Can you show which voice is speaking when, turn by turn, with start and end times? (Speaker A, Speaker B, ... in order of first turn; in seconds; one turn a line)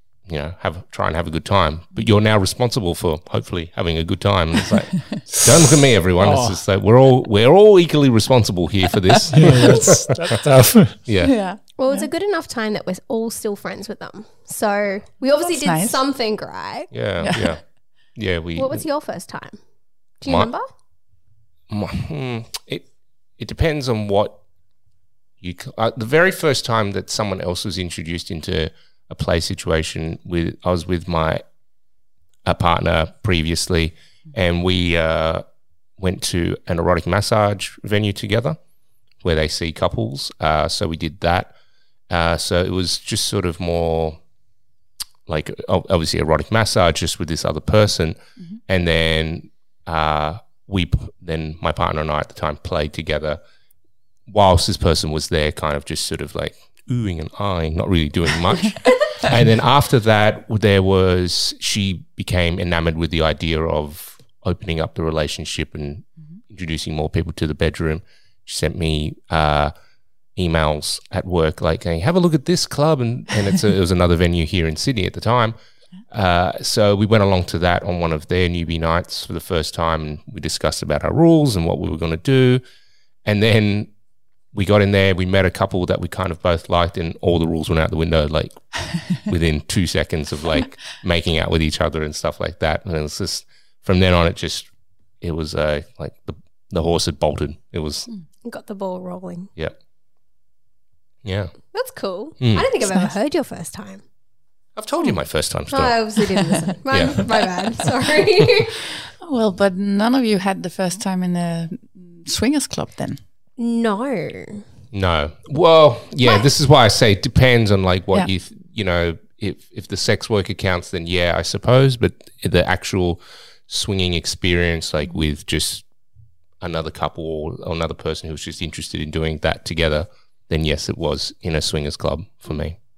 Speaker A: 0.3-10.4
Speaker B: 6.2-6.6
Speaker B: 9.3-11.0
Speaker A: 11.0-11.3
Speaker C: 11.2-12.1
Speaker D: 11.8-16.9
Speaker C: 15.4-16.0
Speaker A: 16.9-17.6
Speaker C: 17.2-17.5
Speaker A: 18.1-18.8
Speaker D: 18.6-19.6
Speaker D: 20.2-20.6
Speaker A: 20.2-20.5
Speaker A: 21.7-22.9
Speaker A: 23.4-24.4
Speaker A: 25.4-31.4
Speaker A: 32.4-35.4
Speaker A: 36.0-38.6
Speaker A: 39.2-41.5
Speaker A: 42.1-44.2
Speaker A: 45.3-53.4
Speaker A: 54.3-69.7
Speaker A: 70.3-75.5
Speaker A: 76.1-82.6
Speaker A: 83.2-83.9
Speaker A: 84.5-94.7
Speaker A: 95.2-98.1
Speaker D: 98.4-99.5
Speaker A: 101.2-101.5
Speaker D: 101.7-104.0
Speaker A: 102.4-102.7
Speaker A: 104.8-106.0
Speaker D: 105.7-108.9
Speaker A: 106.9-107.3
Speaker C: 109.2-113.2
Speaker D: 113.6-114.6
Speaker A: 114.9-125.8
Speaker A: 126.6-132.8